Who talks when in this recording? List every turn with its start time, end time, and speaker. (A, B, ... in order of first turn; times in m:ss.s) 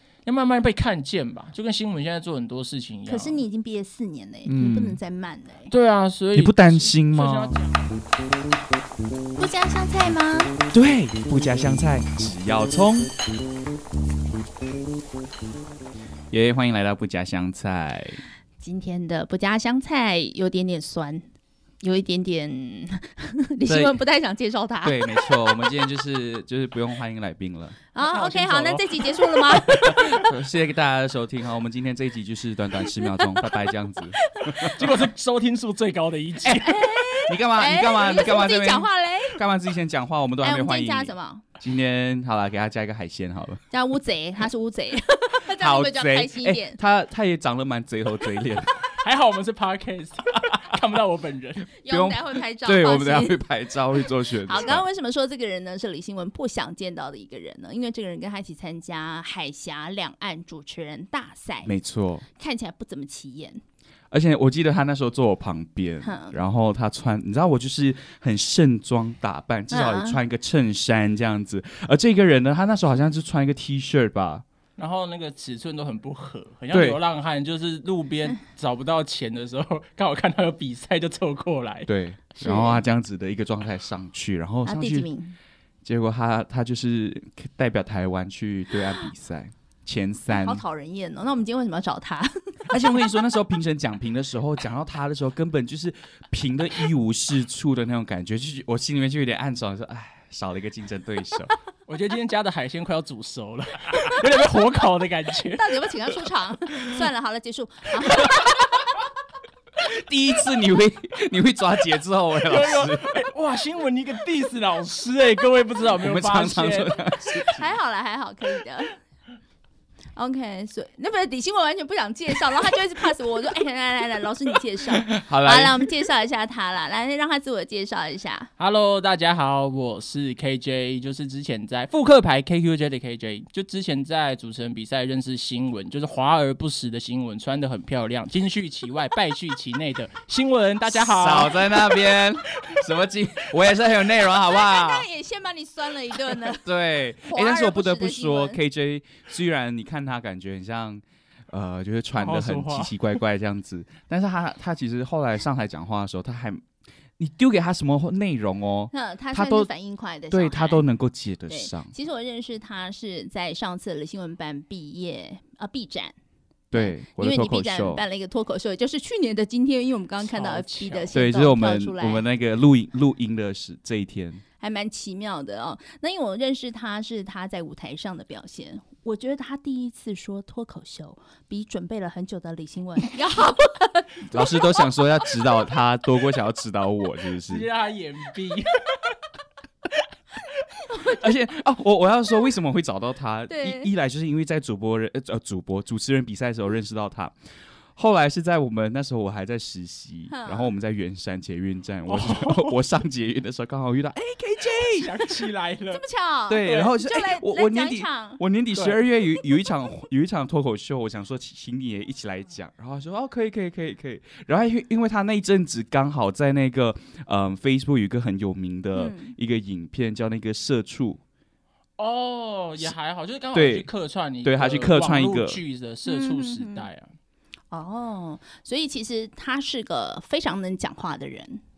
0:00.2-0:03.4 A
0:03.1-0:05.7 B
0:04.5-0:05.0 C
0:05.7-0:07.9 A
0:06.4-0:07.6 C
0:09.4-0:10.6 B
0:10.7-0:13.1 C
0:16.3-0:18.2 C
0:18.6-0:21.2 B
0:21.8-0:25.7 B
0:23.7-0:24.0 C
0:24.8-0:27.8 C
0:27.9-0:30.2 B
0:28.0-0:29.5 A
0:29.7-0:34.8 C
0:32.8-0:33.6 B
0:34.3-0:34.8 B
0:34.7-0:36.7 A
0:36.4-0:43.6 C
0:36.5-0:39.4 B
0:40.4-0:41.5 B
0:43.7-0:46.8 B
0:45.5-0:48.8 C
0:49.0-0:51.7 A
0:51.8-0:53.4 B
0:51.9-0:54.8 C
0:54.4-1:01.7 B
1:01.7-1:02.2 C
1:02.4-1:03.6 B
1:04.1-1:14.4 C
1:06.0-1:06.3 B
1:09.7-1:10.2 B
1:14.8-1:21.9 A
1:16.7-1:17.0 C
1:21.9-1:25.1 C
1:22.4-1:22.8 B
1:24.6-1:25.4 B
1:25.8-1:30.6 C
1:30.3-1:32.8 B
1:32.7-1:41.5 C
1:41.9-1:45.8 A
1:45.5-1:48.9 B
1:49.8-1:53.2 C
1:52.4-1:57.0 A
1:56.0-1:57.6 C
1:57.2-1:59.0 B
2:00.2-2:08.5 B
2:05.2-2:05.9 C
2:08.6-2:21.6 A
2:21.0-2:25.1 C
2:24.2-2:26.7 B
2:26.6-2:36.6 C
2:27.2-2:28.6 B
2:32.2-2:32.9 A
2:37.2-2:39.7 C
2:38.9-2:40.8 B
2:40.3-2:41.9 C
2:41.5-2:46.2 B
2:46.7-2:48.0 C
2:46.7-2:52.2 B
2:50.2-2:51.1 A
2:51.1-2:54.4 C
2:54.6-3:04.8 B
3:04.3-3:07.7 C
3:07.5-3:09.0 A
3:10.8-3:11.3 B
3:11.0-3:17.4 C
3:13.5-3:13.9 B
3:18.0-3:25.0 C
3:20.3-3:20.7 B
3:22.1-3:22.8 A
3:24.3-3:26.0 A
3:25.9-3:28.4 B
3:26.5-3:41.2 C
3:26.6-3:26.9 A
3:39.0-3:39.3 B
3:42.0-3:47.1 A
3:43.5-3:43.9 C
3:44.4-3:45.6 C
3:46.1-3:46.9 B
3:47.7-3:51.6 B